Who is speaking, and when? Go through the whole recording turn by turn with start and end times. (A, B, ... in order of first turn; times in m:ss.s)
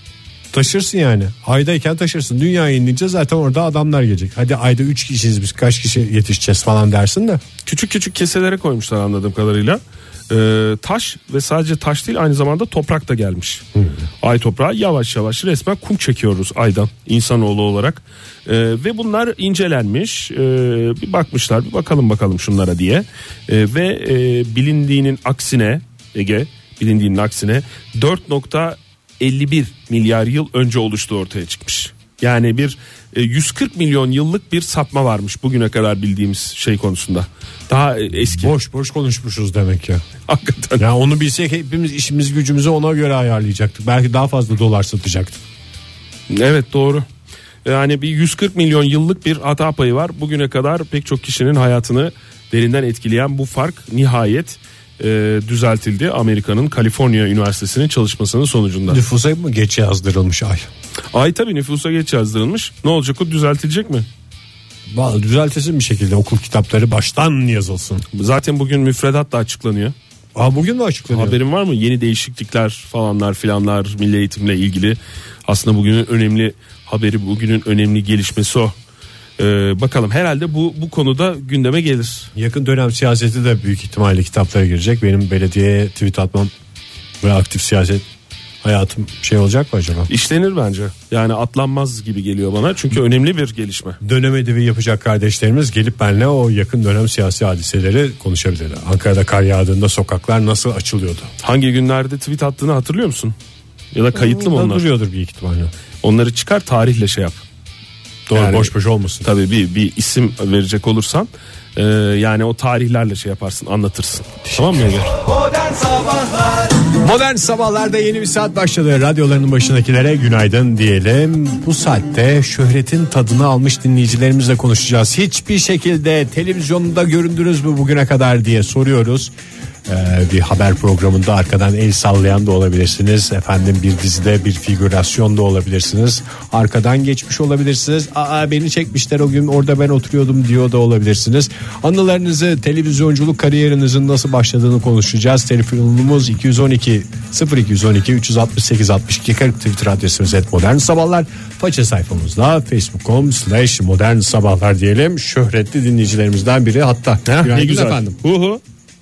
0:00.5-0:07.4 A
0:07.6-0:13.6 B
0:13.8-0:14.1 A
0:14.2-0:38.6 B
0:38.3-0:40.0 A
0:40.3-0:40.8 B
0:40.8-0:45.4 A
0:46.3-0:47.0 B
0:47.6-0:59.0 B
0:58.9-1:00.7 A
1:01.1-1:04.1 B
1:04.9-1:08.0 A
1:08.2-1:09.9 B
1:10.4-1:11.4 A
1:11.1-1:18.7 B
1:19.4-1:22.3 B
1:22.4-1:26.5 A
1:27.2-1:28.0 A
1:28.6-1:30.1 A
1:30.1-1:34.0 B
1:34.0-1:41.3 A
1:41.4-1:43.3 B
1:43.9-1:44.9 B
1:44.1-1:45.7 A
1:46.0-1:47.4 B
1:48.3-1:49.3 A
1:48.3-1:48.7 B
1:49.2-1:55.1 B
1:54.5-1:54.8 A
1:56.9-2:09.3 A
2:09.9-2:38.2 A
2:37.3-2:38.6 B